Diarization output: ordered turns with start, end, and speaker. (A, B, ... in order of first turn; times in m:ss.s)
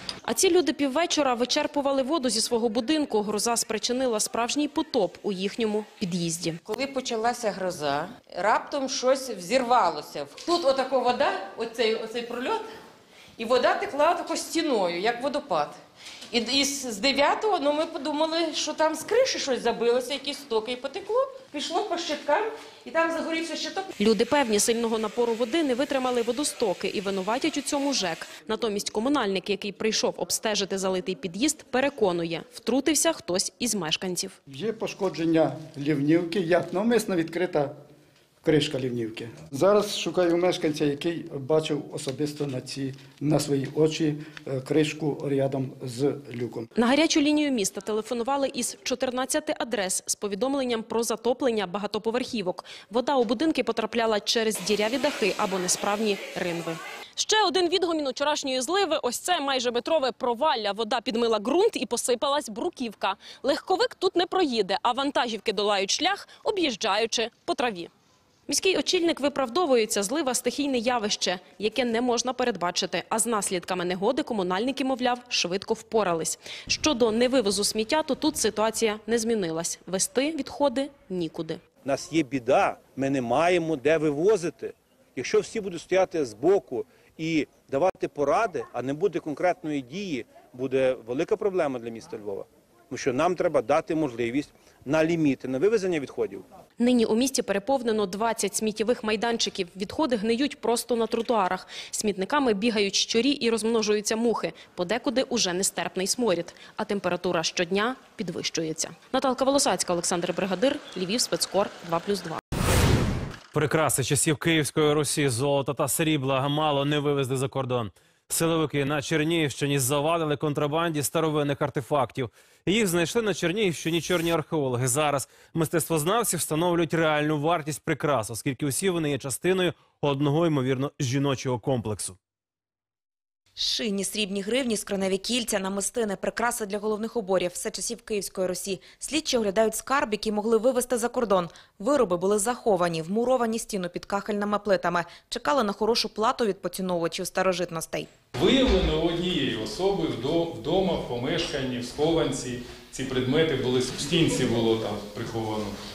0:00.2-0:06.6 A
0:06.6-0:12.7 B
0:13.4-0:23.9 B
0:24.0-0:34.4 A
0:34.5-0:37.8 C
0:38.4-0:46.7 C
0:46.8-1:07.9 A
1:08.5-1:21.6 A
1:21.8-1:36.4 D
1:36.8-1:52.4 A
1:53.5-2:12.2 E
2:13.6-2:28.1 F
2:28.3-2:35.8 G